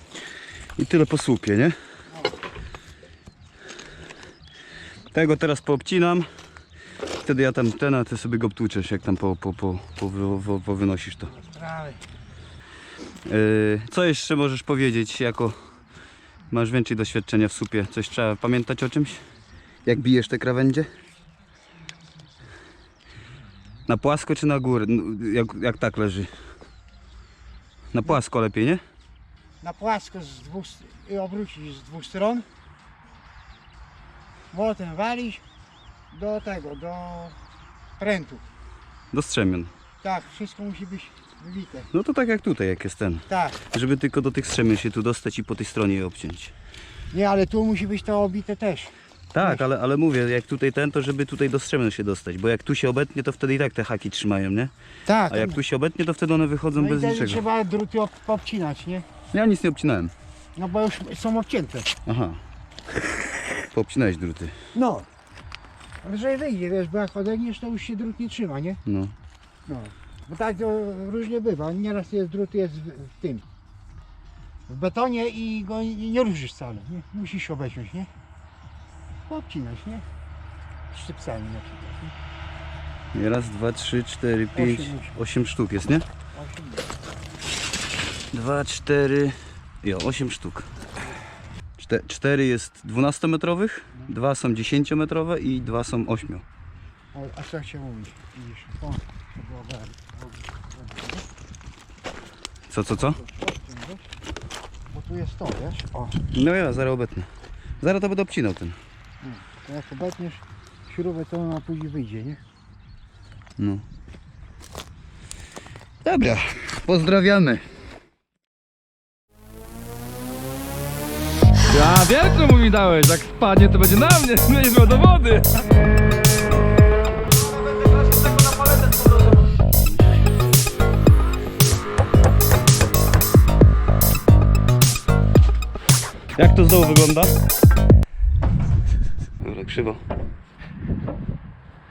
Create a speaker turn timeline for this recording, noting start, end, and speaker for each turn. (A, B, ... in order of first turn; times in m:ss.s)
0:00.8-0:01.8 A
0:05.1-0:06.3 A
0:07.2-0:11.4 A
0:11.3-0:12.0 B
0:13.2-0:15.6 A
0:16.5-0:19.2 A
0:19.8-0:20.9 A
0:23.9-0:26.3 A
0:27.9-0:28.8 A
0:29.6-0:32.5 B
0:34.5-0:35.4 B
0:36.1-0:37.4 B
0:38.0-0:38.4 B
0:39.1-0:39.7 A
0:40.0-0:41.9 B
0:41.9-0:46.5 A
0:43.3-0:43.6 B
0:47.1-0:49.6 B
0:49.3-0:54.7 A
0:55.1-0:55.6 B
0:55.3-0:57.4 A
0:56.8-0:59.1 B
0:59.3-1:00.1 A
1:00.6-1:01.9 B
1:02.1-1:02.4 A
1:03.5-1:04.6 A
1:04.8-1:05.1 B
1:06.0-1:08.8 B
1:08.9-1:09.2 A
1:09.7-1:13.4 B
1:14.7-1:18.1 B
1:19.3-1:20.1 B
1:20.9-1:22.1 B
1:23.1-1:26.1 A
1:24.6-1:25.2 B
1:26.3-1:26.9 B
1:28.3-1:30.7 A
1:31.8-1:36.4 A
1:37.1-1:41.3 B
1:42.7-1:43.2 A
1:43.1-1:44.1 B
1:44.9-1:46.2 B
1:46.3-1:47.3 A
1:47.8-1:48.8 A
1:49.2-1:52.4 B
1:53.6-1:53.9 A
1:56.0-1:57.7 A
2:01.7-2:05.4 C
2:16.3-2:17.3 A
2:19.4-2:20.0 A